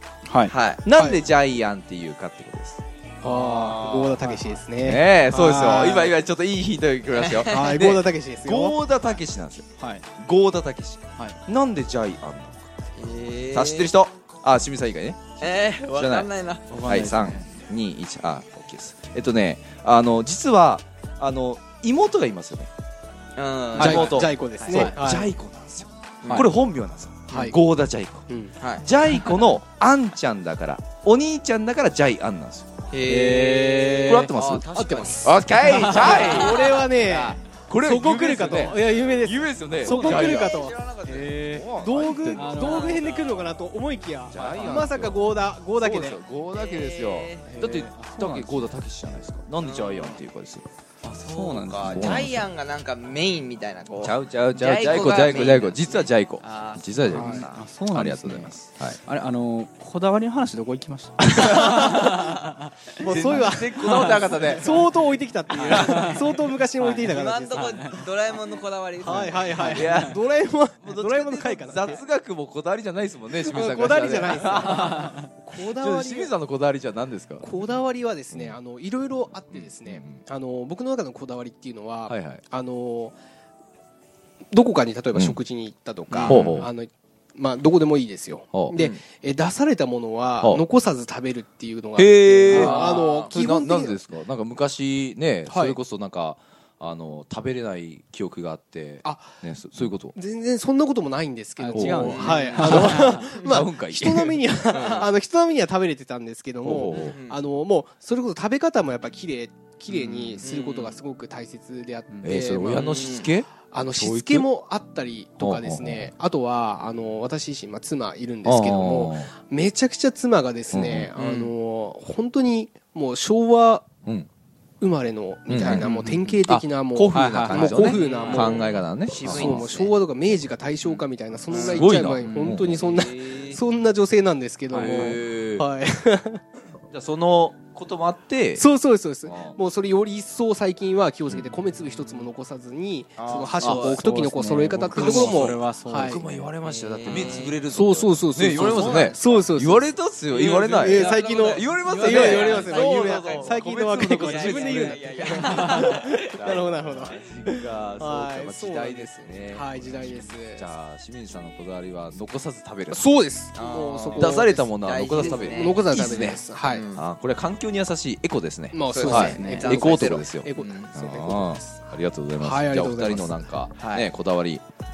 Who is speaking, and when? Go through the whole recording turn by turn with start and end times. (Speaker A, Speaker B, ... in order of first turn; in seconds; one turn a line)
Speaker A: 0.3-0.5
Speaker B: 0.5-0.8
Speaker C: 0.8-2.8
Speaker D: 0.9-1.2
Speaker D: 3.2-6.1
Speaker A: 3.2-4.6
Speaker B: 3.3-4.1
Speaker C: 4.8-12.7
Speaker A: 5.3-6.1
Speaker B: 7.1-7.8
Speaker D: 7.4-8.8
Speaker A: 9.8-10.1
Speaker B: 13.0-13.9
Speaker C: 13.5-22.7
Speaker B: 15.4-16.7
Speaker A: 16.7-17.5
Speaker B: 23.4-24.9
Speaker A: 23.8-24.0
Speaker D: 23.8-25.3
Speaker C: 23.8-28.3
Speaker B: 26.2-26.5
Speaker D: 27.3-27.6
Speaker D: 28.3-28.5
Speaker C: 28.8-32.7
Speaker B: 32.9-37.4
Speaker A: 33.0-34.3
Speaker C: 34.0-40.6
Speaker D: 34.7-40.7
Speaker A: 35.6-36.2
Speaker A: 39.8-40.5
Speaker B: 39.9-41.4
Speaker A: 41.0-41.7
Speaker C: 41.3-42.7
Speaker D: 41.7-46.2
Speaker A: 42.3-43.1
Speaker B: 42.5-43.5
Speaker C: 44.3-50.6
Speaker A: 44.3-44.9
Speaker B: 46.5-47.5
Speaker A: 47.5-48.7
Speaker B: 49.6-50.2
Speaker A: 51.0-52.3
Speaker B: 51.1-57.7
Speaker C: 51.8-52.5
Speaker C: 54.0-59.0
Speaker A: 57.1-64.4
Speaker C: 61.2-62.1
Speaker D: 63.0-67.8
Speaker C: 63.0-64.8
Speaker B: 64.2-64.8
Speaker B: 65.5-69.9
Speaker A: 65.7-66.2
Speaker A: 66.8-68.0
Speaker D: 69.0-72.0
Speaker A: 69.1-70.1
Speaker C: 69.7-70.2
Speaker C: 70.8-75.1
Speaker D: 73.3-76.3
Speaker A: 74.7-75.2
Speaker C: 75.7-77.5
Speaker D: 77.4-83.2
Speaker C: 78.3-78.6
Speaker C: 79.5-80.2
Speaker C: 82.1-82.4
Speaker D: 84.5-94.0
Speaker C: 85.1-85.4
Speaker B: 86.1-86.4
Speaker C: 86.2-86.7
Speaker C: 92.0-100.2
Speaker A: 92.5-93.0
Speaker B: 92.6-93.3
Speaker D: 95.5-95.8
Speaker D: 99.0-99.3
Speaker D: 100.1-113.1
Speaker A: 101.6-103.1
Speaker C: 101.7-105.1
Speaker B: 102.0-103.5
Speaker B: 104.7-105.1
Speaker C: 106.6-107.2
Speaker B: 106.9-107.4
Speaker C: 110.0-110.4
Speaker B: 110.4-111.0
Speaker A: 112.1-112.4
Speaker C: 112.2-114.5
Speaker B: 112.7-113.3
Speaker D: 113.6-123.9
Speaker C: 115.4-116.1
Speaker C: 118.4-119.3
Speaker C: 120.7-121.1
Speaker B: 121.2-121.5
Speaker D: 124.8-136.4
Speaker C: 125.5-129.7
Speaker A: 125.7-126.2
Speaker A: 127.1-128.6
Speaker B: 127.8-130.0
Speaker B: 130.8-133.6
Speaker C: 131.7-133.2
Speaker A: 132.2-132.6
Speaker A: 134.7-135.2
Speaker C: 134.8-135.7
Speaker C: 136.9-138.7
Speaker D: 138.6-146.2
Speaker C: 139.2-139.6
Speaker B: 143.2-144.0
Speaker C: 143.6-143.9
Speaker A: 143.8-146.5
Speaker C: 144.9-163.0
Speaker B: 146.6-147.6
Speaker D: 147.1-149.9
Speaker B: 148.6-149.2
Speaker B: 150.3-156.8
Speaker D: 150.8-160.7
Speaker D: 162.9-166.8
Speaker B: 163.5-167.0
Speaker C: 164.2-166.4
Speaker C: 166.9-174.6
Speaker D: 168.7-173.5
Speaker B: 168.9-171.0
Speaker A: 169.1-169.7
Speaker B: 173.8-174.1